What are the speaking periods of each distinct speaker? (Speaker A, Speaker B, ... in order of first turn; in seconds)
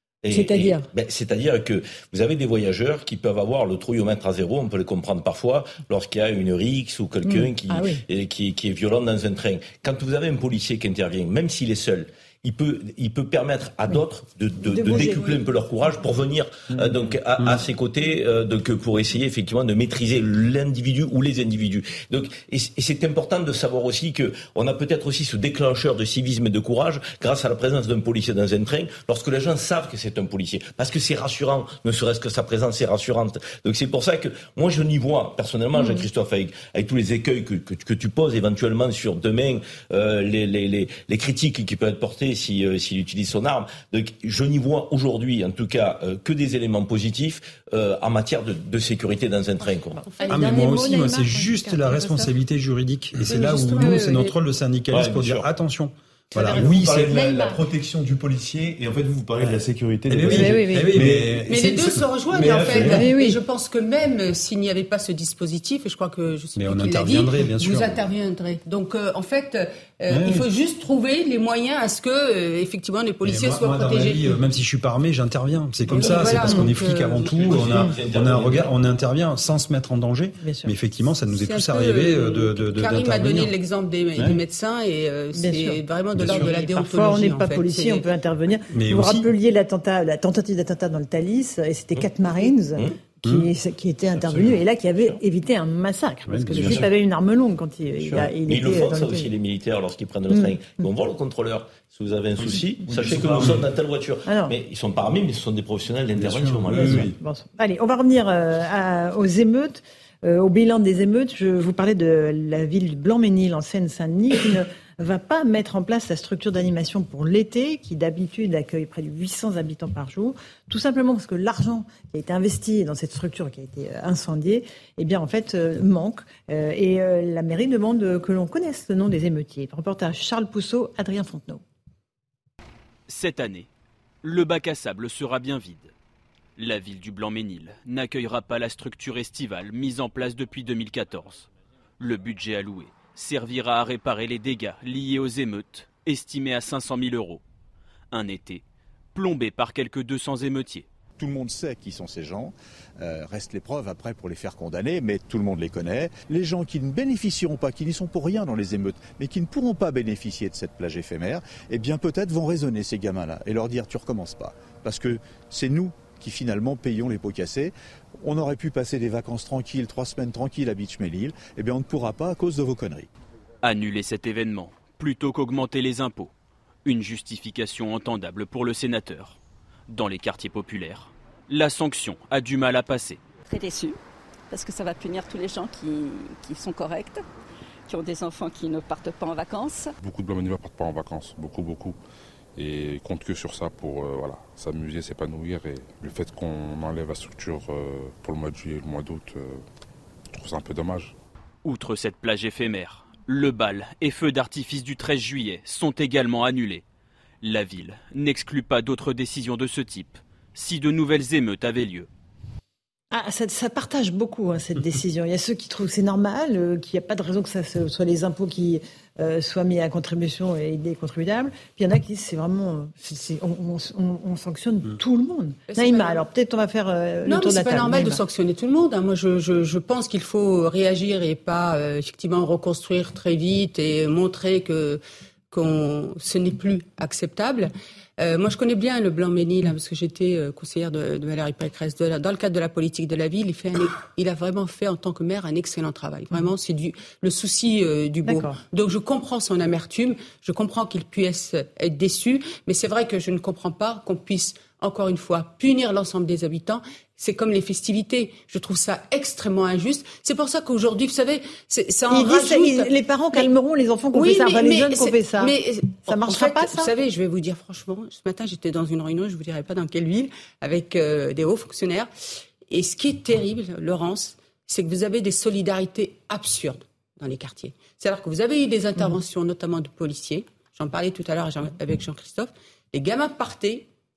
Speaker A: 0.2-50.0, 54.9-55.5, 77.3-78.7, 98.4-107.1
Speaker B: 0.3-0.8, 7.2-8.0, 14.6-15.4, 35.7-36.0, 49.9-52.3, 53.3-54.4, 56.4-57.7, 60.2-61.0, 62.8-63.4, 80.4-80.7, 85.3-99.3, 100.3-100.9, 104.2-104.5, 107.2-131.6, 213.1-228.2, 248.2-248.6, 262.1-265.5, 266.1-266.9
Speaker C: 50.3-57.2, 60.1-61.8, 66.6-67.9, 70.1-70.5, 73.2-83.5, 86.2-86.5, 88.7-89.3, 96.3-96.8
Speaker D: 53.5-53.7, 61.5-74.3, 75.9-77.7, 81.3-88.0, 225.7-226.2, 227.2-263.5, 264.1-272.1, 272.7-283.9
Speaker E: 56.4-63.0, 96.5-96.8, 102.4-103.6, 106.2-107.2
Speaker F: 133.1-133.7, 134.2-135.9, 136.6-141.5, 142.0-147.4, 148.1-148.6, 149.1-150.8, 173.6-176.3, 176.8-183.2, 201.6-206.8, 207.4-212.1
Speaker G: 151.2-173.1
Speaker H: 183.4-184.0, 184.5-187.2, 187.9-189.9
Speaker I: 190.0-192.0, 192.6-199.6, 200.3-201.1